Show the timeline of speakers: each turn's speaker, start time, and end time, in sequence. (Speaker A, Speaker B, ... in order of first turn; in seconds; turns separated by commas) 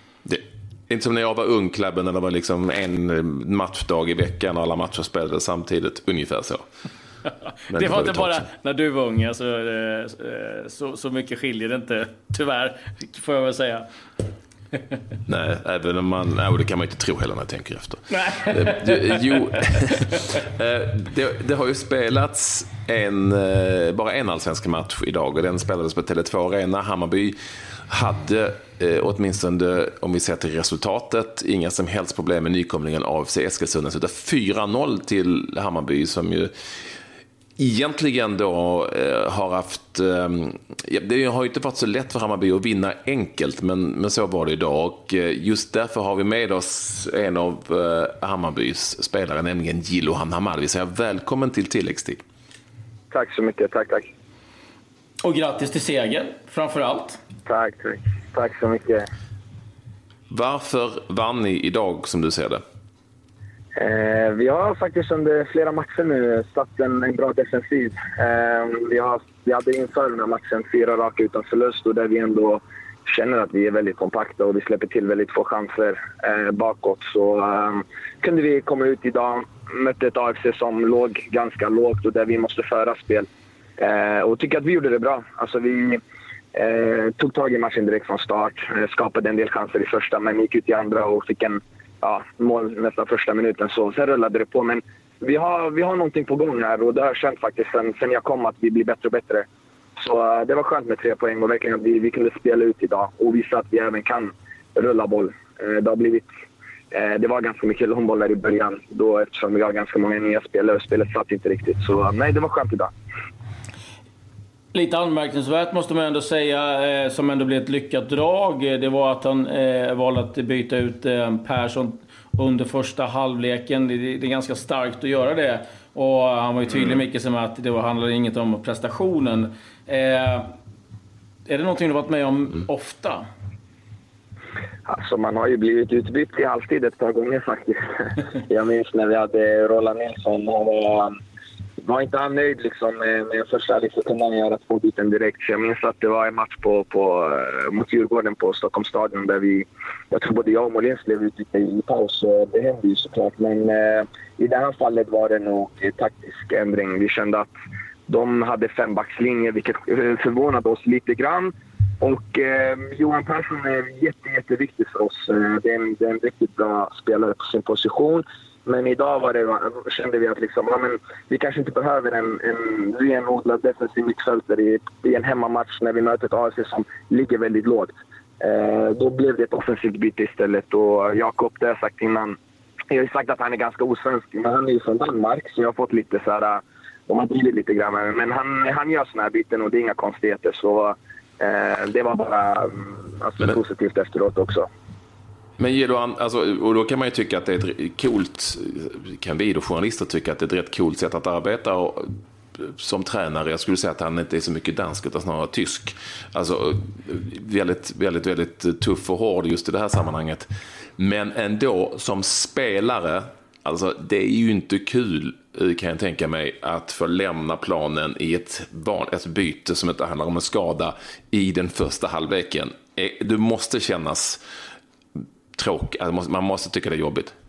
Speaker A: 0.2-6.6, Speaker A: 7.7-8.4, Speaker B: 7.7-13.8, Speaker A: 15.3-36.5, Speaker B: 18.1-19.4, Speaker A: 37.6-52.2, Speaker C: 53.1-54.1, Speaker B: 55.2-57.2, Speaker C: 57.5-59.1, Speaker A: 60.3-62.6, Speaker C: 63.7-86.0, Speaker C: 86.5-106.3, Speaker C: 106.9-112.9, Speaker B: 114.7-130.5, Speaker B: 131.4-133.2, Speaker C: 134.9-141.2, Speaker C: 141.8-157.5, Speaker C: 158.1-182.4, Speaker C: 182.9-194.7, Speaker A: 195.6-210.5, Speaker A: 211.0-224.4, Speaker A: 225.6-227.3